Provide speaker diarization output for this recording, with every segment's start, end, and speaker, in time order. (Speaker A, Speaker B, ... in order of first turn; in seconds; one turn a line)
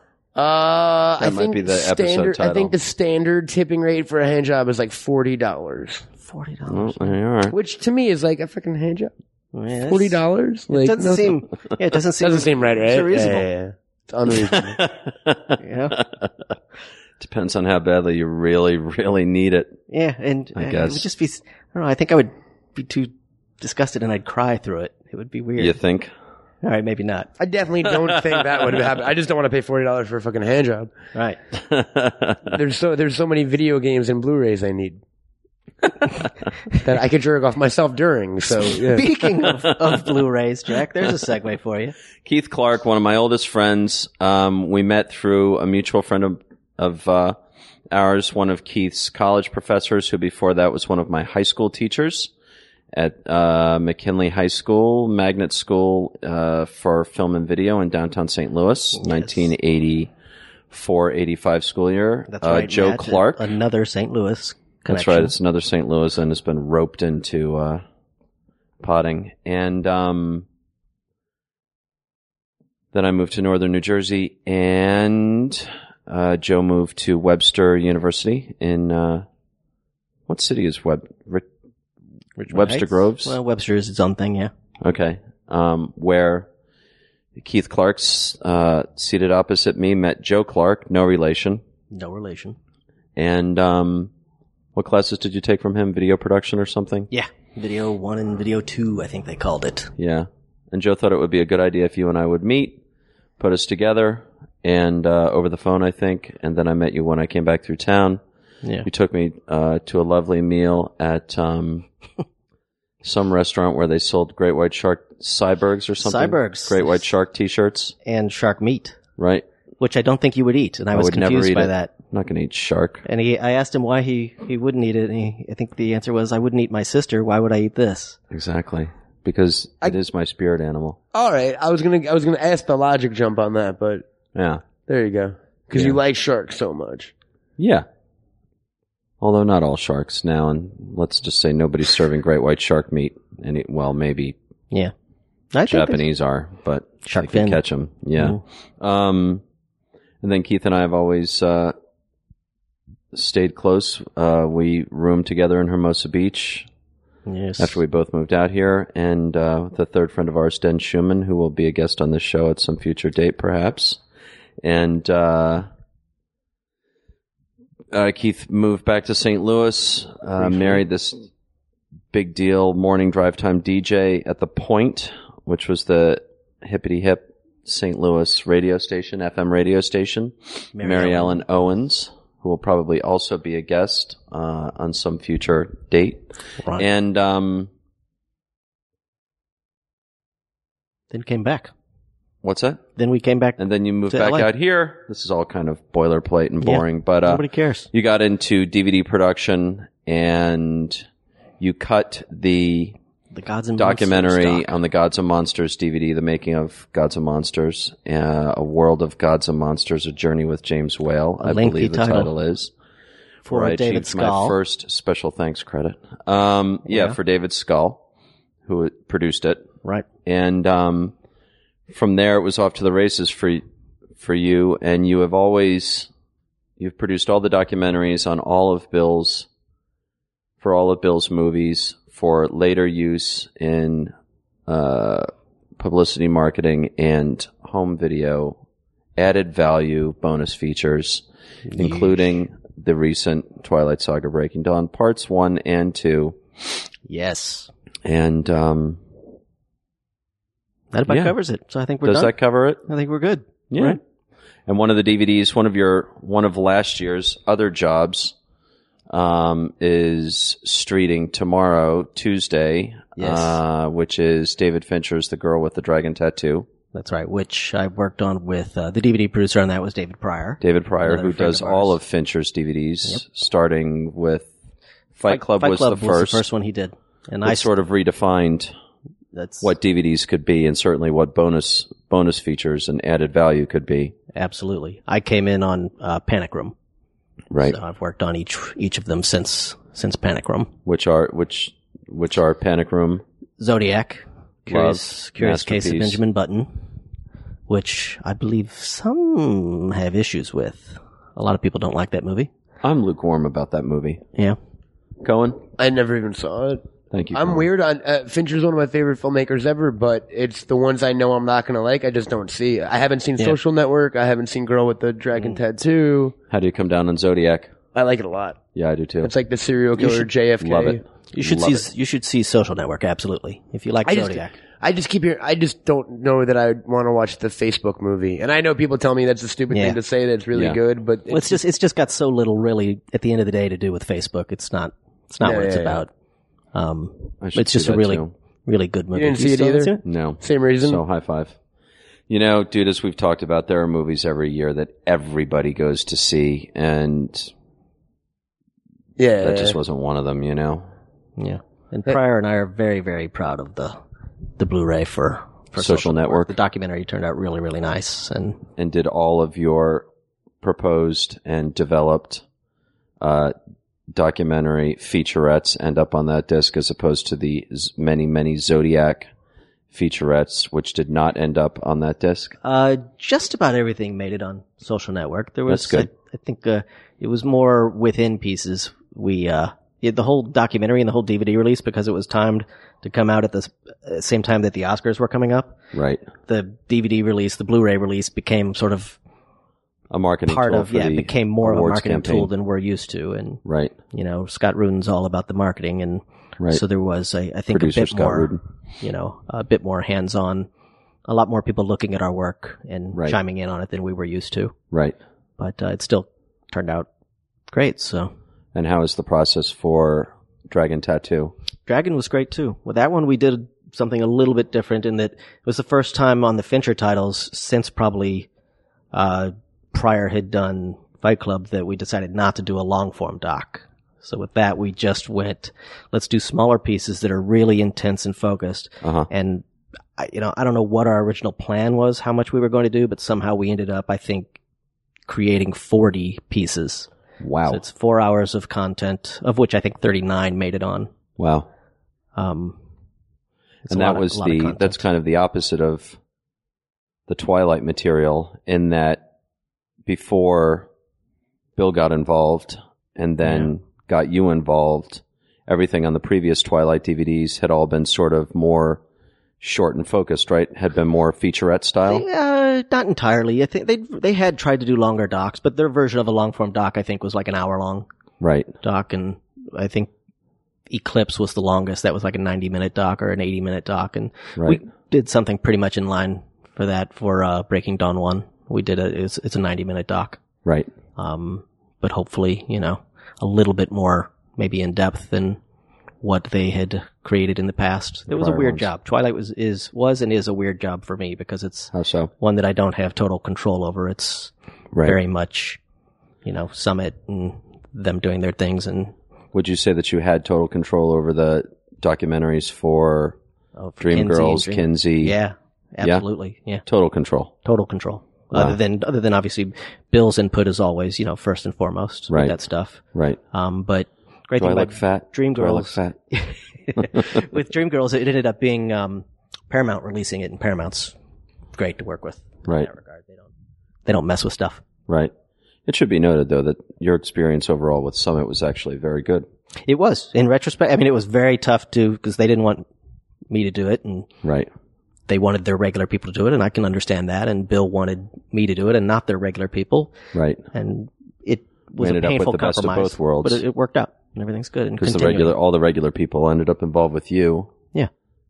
Speaker A: 0.4-6.1
Speaker B: 1.2-2.7
Speaker C: 6.2-7.2
Speaker B: 6.7-7.5
Speaker A: 7.5-9.1
Speaker C: 9.5-10.2
Speaker A: 9.8-11.4
Speaker C: 10.7-13.5
Speaker A: 12.2-14.8
Speaker B: 14.3-16.3
Speaker C: 15.6-16.0
Speaker B: 17.2-19.8
Speaker C: 19.9-25.8
Speaker B: 20.6-21.1
Speaker B: 25.6-26.1
Speaker C: 26.6-27.3
Speaker A: 27.4-30.9
Speaker B: 31.5-32.6
Speaker A: 32.5-35.0
Speaker A: 36.8-39.1
Speaker C: 38.9-42.0
Speaker B: 42.2-47.4
Speaker B: 47.9-52.3
Speaker B: 52.9-60.1
Speaker C: 59.0-59.3
Speaker B: 60.7-63.5
Speaker C: 62.3-65.3
Speaker B: 64.9-67.8
Speaker B: 68.8-70.5
Speaker B: 72.9-79.3
Speaker B: 80.3-81.5
Speaker C: 82.4-84.5
Speaker B: 82.5-83.3
Speaker B: 84.8-86.5
Speaker B: 87.4-91.6
Speaker C: 91.9-92.6
Speaker B: 93.2-94.1
Speaker B: 94.8-97.1
Speaker C: 97.1-99.9
Speaker B: 100.0-102.8
Speaker B: 103.4-108.2
Speaker B: 108.8-111.9
Speaker B: 113.0-118.0
Speaker C: 116.0-116.9
Speaker C: 118.0-119.0
Speaker B: 119.2-119.5
Speaker C: 119.8-121.9
Speaker B: 120.9-123.0
Speaker C: 123.0-128.2
Speaker B: 128.3-131.0
Speaker A: 131.1-134.1
Speaker B: 134.3-134.6
Speaker A: 134.9-137.1
Speaker B: 135.7-136.0
Speaker B: 137.6-137.9
Speaker B: 139.2-144.4
Speaker C: 145.5-146.0
Speaker B: 145.7-149.4
Speaker C: 147.0-147.6
Speaker C: 148.2-148.4
Speaker B: 150.2-151.7
Speaker B: 153.1-156.7
Speaker C: 157.3-157.8
Speaker B: 157.6-164.0
Speaker B: 164.6-165.7
Speaker B: 167.9-171.3
Speaker B: 172.1-187.7
Speaker C: 180.8-181.4
Speaker C: 191.1-191.7
Speaker B: 192.4-192.8
Speaker C: 193.0-194.5
Speaker B: 193.6-201.1
Speaker C: 196.6-197.9
Speaker B: 201.6-202.9
Speaker C: 203.3-204.7
Speaker B: 203.8-212.7
Speaker C: 211.4-212.3
Speaker C: 213.4-214.6
Speaker B: 213.5-218.0
Speaker C: 216.9-217.2
Speaker B: 218.7-219.7
Speaker B: 220.2-221.1
Speaker B: 221.9-223.6
Speaker B: 224.2-226.1
Speaker B: 226.8-229.5
Speaker B: 230.6-234.1
Speaker B: 234.7-238.6
Speaker B: 239.2-246.4
Speaker C: 241.7-242.2
Speaker C: 247.1-247.7
Speaker B: 248.1-249.0
Speaker C: 250.9-252.3
Speaker B: 251.1-251.4
Speaker B: 252.0-252.8
Speaker C: 252.9-254.0
Speaker B: 253.7-254.0
Speaker B: 254.7-258.4
Speaker B: 259.1-266.7
Speaker C: 263.2-263.6
Speaker C: 266.9-271.9
Speaker B: 270.6-274.5
Speaker B: 275.1-276.5
Speaker C: 275.2-277.7
Speaker B: 277.4-278.7
Speaker C: 279.3-279.7
Speaker B: 279.6-284.1
Speaker C: 284.3-286.7
Speaker B: 287.5-287.8
Speaker C: 287.6-290.7
Speaker B: 290.9-293.2
Speaker C: 293.6-296.8
Speaker B: 294.7-296.2
Speaker C: 297.7-302.5
Speaker B: 302.8-304.2
Speaker B: 305.2-305.6
Speaker A: 305.8-316.3
Speaker B: 307.1-307.6
Speaker B: 316.5-317.7
Speaker A: 317.9-318.6
Speaker B: 318.8-319.3
Speaker A: 319.2-321.0
Speaker C: 320.0-320.3
Speaker B: 320.6-321.9
Speaker C: 321.3-324.5
Speaker A: 324.1-331.6
Speaker C: 329.7-330.0
Speaker B: 330.5-330.8
Speaker C: 331.3-336.1
Speaker A: 335.4-336.0
Speaker C: 336.7-340.0
Speaker B: 337.4-338.3
Speaker A: 339.1-341.0
Speaker B: 340.1-341.6
Speaker B: 342.3-347.5
Speaker A: 349.2-349.8
Speaker B: 349.4-350.9
Speaker C: 351.4-354.0
Speaker C: 354.6-358.6
Speaker B: 355.8-356.5
Speaker B: 358.8-360.1
Speaker B: 360.6-362.4
Speaker B: 363.2-363.5
Speaker B: 364.1-369.3
Speaker B: 369.9-372.6
Speaker C: 372.6-385.8
Speaker B: 375.7-376.1
Speaker B: 385.9-386.2
Speaker C: 386.5-389.2
Speaker B: 390.1-392.5
Speaker C: 390.5-400.7
Speaker B: 393.6-393.9
Speaker B: 397.7-398.6
Speaker C: 401.3-404.8
Speaker C: 405.6-407.1
Speaker C: 407.7-408.3
Speaker B: 408.7-411.5
Speaker C: 411.9-418.5
Speaker C: 419.1-429.6
Speaker B: 429.0-429.3
Speaker C: 430.2-434.6
Speaker C: 435.3-437.1
Speaker B: 437.4-437.8
Speaker C: 437.7-441.1
Speaker B: 441.4-441.7
Speaker C: 442.4-442.8
Speaker C: 443.9-445.0
Speaker B: 443.9-446.2
Speaker B: 447.3-449.3
Speaker B: 450.1-450.9
Speaker B: 451.8-459.0
Speaker C: 453.4-453.7
Speaker B: 459.6-462.2
Speaker C: 462.1-468.1
Speaker B: 468.4-468.7
Speaker C: 468.8-470.1
Speaker C: 470.9-480.4
Speaker B: 474.6-474.8
Speaker C: 481.2-485.6
Speaker C: 486.2-494.5
Speaker B: 488.3-488.9
Speaker B: 491.9-492.3
Speaker B: 494.9-495.2
Speaker C: 495.0-495.8
Speaker C: 496.4-499.1
Speaker B: 499.5-503.4
Speaker C: 503.8-506.9
Speaker B: 504.0-505.4
Speaker B: 506.9-507.5
Speaker C: 507.6-513.0
Speaker B: 508.5-508.8
Speaker B: 512.3-512.5
Speaker B: 513.1-513.4
Speaker C: 513.5-521.1
Speaker B: 514.6-516.2
Speaker B: 517.0-517.4
Speaker C: 521.7-523.5
Speaker C: 524.1-524.8
Speaker B: 525.9-529.5
Speaker C: 529.9-532.9
Speaker C: 533.5-534.3
Speaker B: 534.4-534.7
Speaker C: 535.3-540.1
Speaker B: 540.3-540.6
Speaker C: 540.7-545.5
Speaker B: 542.0-543.6
Speaker B: 545.0-547.7